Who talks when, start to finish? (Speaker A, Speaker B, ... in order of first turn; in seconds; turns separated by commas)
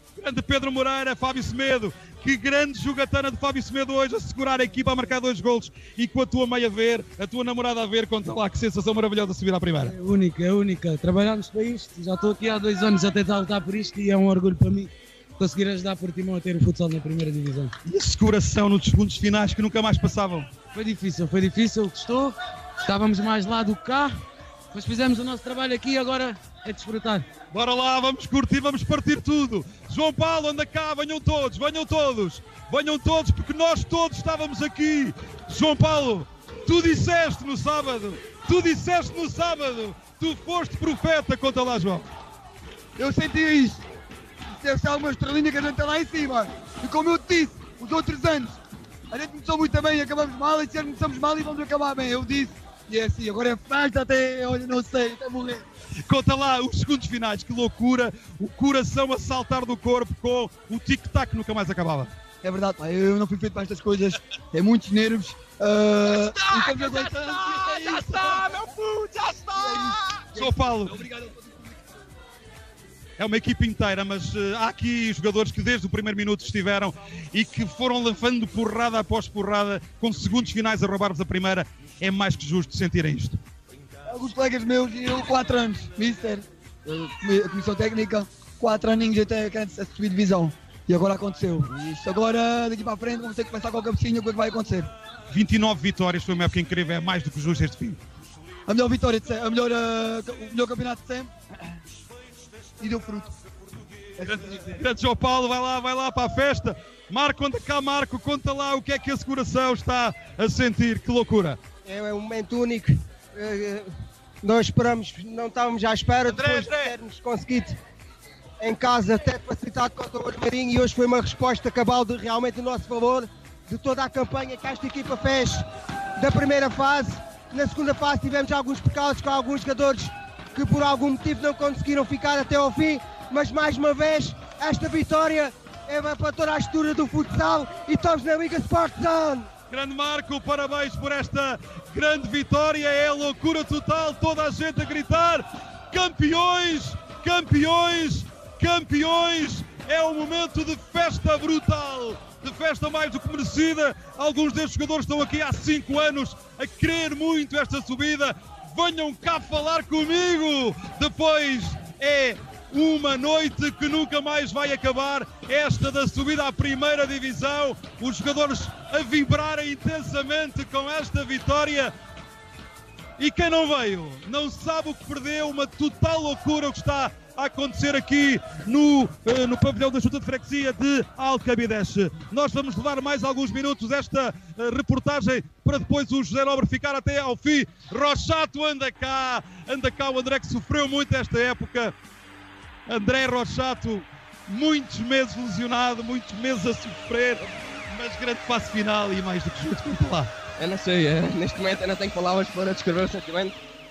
Speaker A: 0.2-9.9, Speaker B: 9.9-17.7, Speaker A: 17.9-20.5, Speaker B: 20.7-27.3, Speaker A: 27.5-42.1, Speaker C: 43.0-43.8, Speaker C: 44.6-48.6, Speaker C: 49.1-55.6, Speaker A: 56.1-62.1, Speaker C: 62.4-68.4, Speaker A: 66.1-71.0, Speaker C: 69.2-71.8, Speaker A: 73.2-83.4, Speaker C: 84.1-94.9, Speaker A: 95.3-98.0, Speaker C: 98.7-101.3, Speaker C: 102.8-103.3, Speaker C: 104.2-104.8, Speaker A: 104.2-111.6, Speaker D: 111.8-113.9, Speaker D: 114.4-117.8, Speaker A: 116.3-116.9, Speaker D: 118.6-125.6, Speaker D: 126.2-139.5, Speaker A: 139.7-171.9, Speaker A: 173.2-191.9, Speaker A: 192.9-200.3, Speaker E: 200.6-203.6